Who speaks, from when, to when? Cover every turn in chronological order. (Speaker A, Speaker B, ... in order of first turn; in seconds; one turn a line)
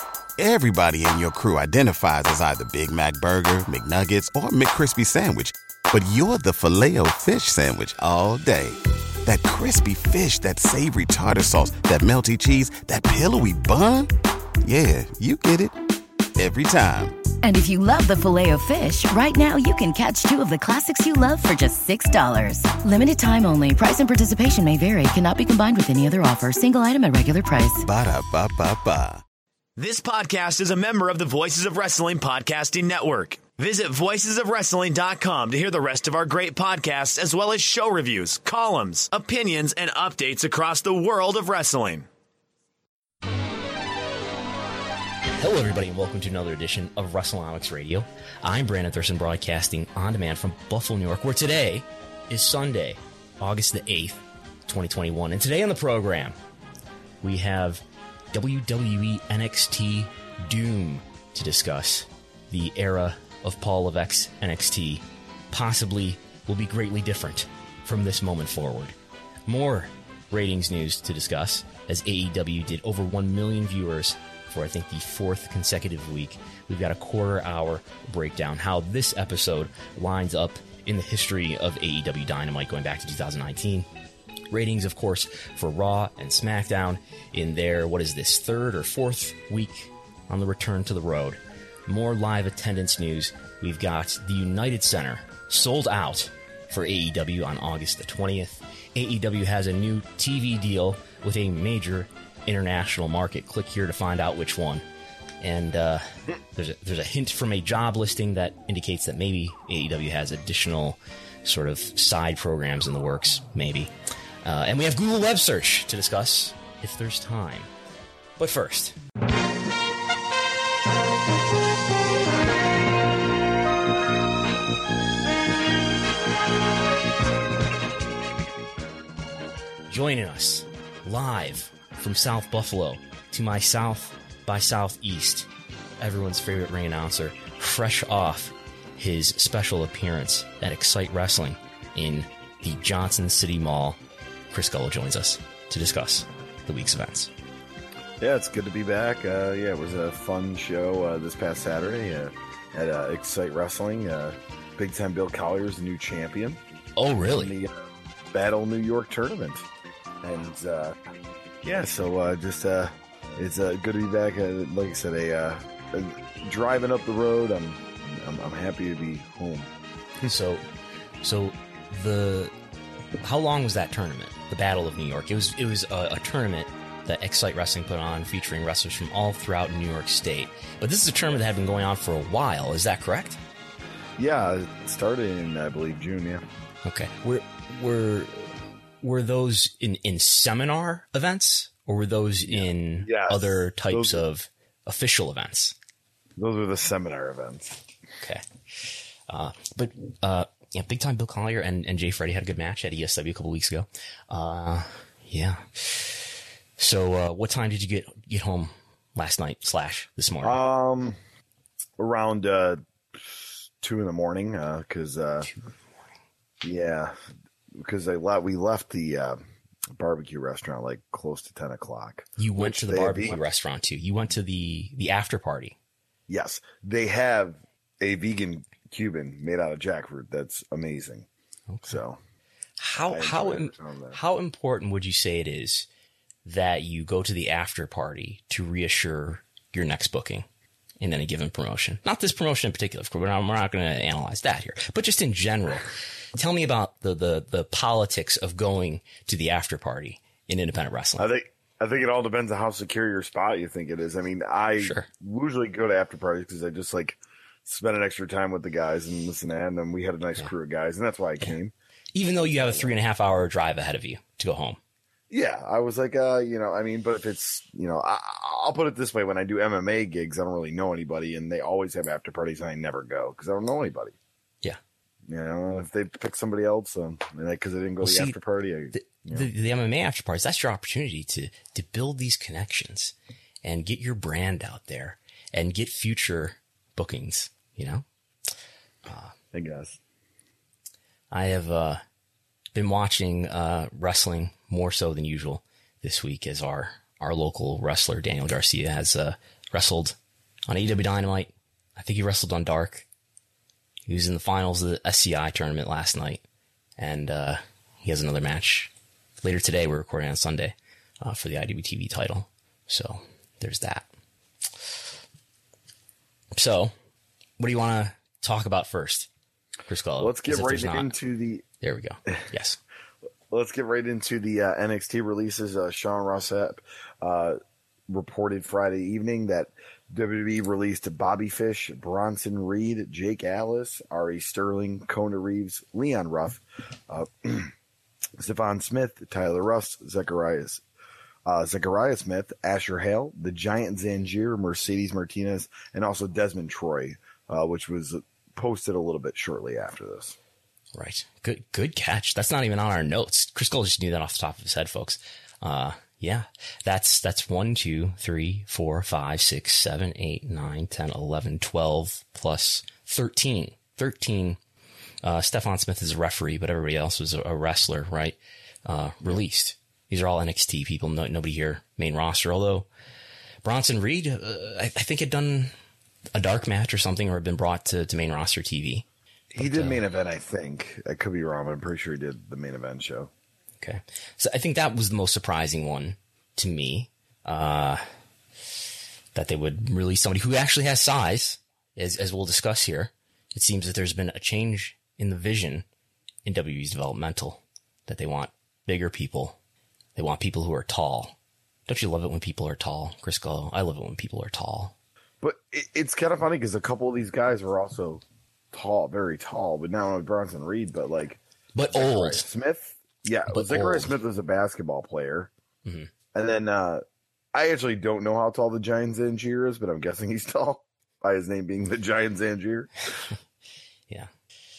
Speaker A: 0.4-15.8
Speaker A: 16.4-17.2
Speaker B: 17.4-27.8
Speaker A: 27.8-29.2
Speaker C: 29.8-42.1
Speaker D: 45.4-56.4
Speaker D: 57.2-68.9
Speaker D: 69.5-83.9
Speaker D: 84.5-104.8
Speaker D: 105.4-113.9
Speaker D: 114.4-117.7
Speaker D: 118.4-119.0
Speaker D: 129.9-135.5
Speaker D: 136.0-144.0
Speaker D: 144.5-147.3
Speaker E: 148.2-156.6
Speaker D: 157.0-157.6
Speaker E: 157.3-159.7
Speaker E: 160.2-161.0
Speaker E: 161.6-169.7
Speaker D: 170.2-170.6
Speaker D: 171.2-172.5
Speaker D: 173.2-183.4
Speaker E: 184.2-186.4
Speaker D: 186.8-195.7
Speaker E: 192.5-194.2
Speaker E: 196.4-197.8
Speaker D: 198.2-210.6
Speaker E: 210.4-211.2
Speaker E: 212.0-215.5
Speaker D: 215.4-215.7
Speaker E: 216.6-217.2
Speaker E: 217.7-219.4
Speaker E: 219.9-223.4
Speaker D: 222.4-225.8
Speaker E: 226.3-231.3
Speaker D: 231.7-232.0
Speaker E: 231.9-232.2
Speaker D: 232.8-235.9
Speaker E: 233.0-234.2
Speaker D: 236.4-240.4
Speaker D: 241.0-251.3
Speaker E: 251.2-261.7
Speaker D: 254.8-255.1
Speaker D: 262.1-264.8
Speaker E: 262.4-262.9
Speaker E: 265.3-274.1
Speaker E: 275.3-279.5
Speaker D: 278.0-278.4
Speaker D: 278.9-288.0
Speaker D: 289.0-289.3
Speaker E: 289.5-290.0
Speaker D: 291.3-292.0
Speaker D: 292.7-300.1
Speaker D: 300.7-303.1
Speaker D: 304.1-306.4
Speaker D: 307.0-308.9
Speaker D: 309.4-314.1
Speaker D: 316.5-316.9
Speaker D: 317.6-319.3
Speaker D: 319.9-321.1
Speaker E: 320.2-321.6
Speaker D: 321.8-322.8
Speaker E: 323.5-337.7
Speaker E: 338.4-340.8
Speaker E: 341.4-350.4
Speaker D: 350.9-364.6
Speaker D: 365.2-372.9
Speaker D: 373.6-375.7
Speaker D: 376.3-379.1
Speaker E: 379.5-383.3
Speaker D: 379.6-380.0
Speaker D: 383.8-388.0
Speaker D: 389.3-395.8
Speaker D: 396.4-399.6
Speaker D: 400.1-404.9
Speaker E: 405.4-411.4
Speaker D: 411.7-412.4
Speaker E: 411.9-415.5
Speaker D: 413.5-414.1
Speaker D: 415.8-416.1
Speaker E: 416.3-423.0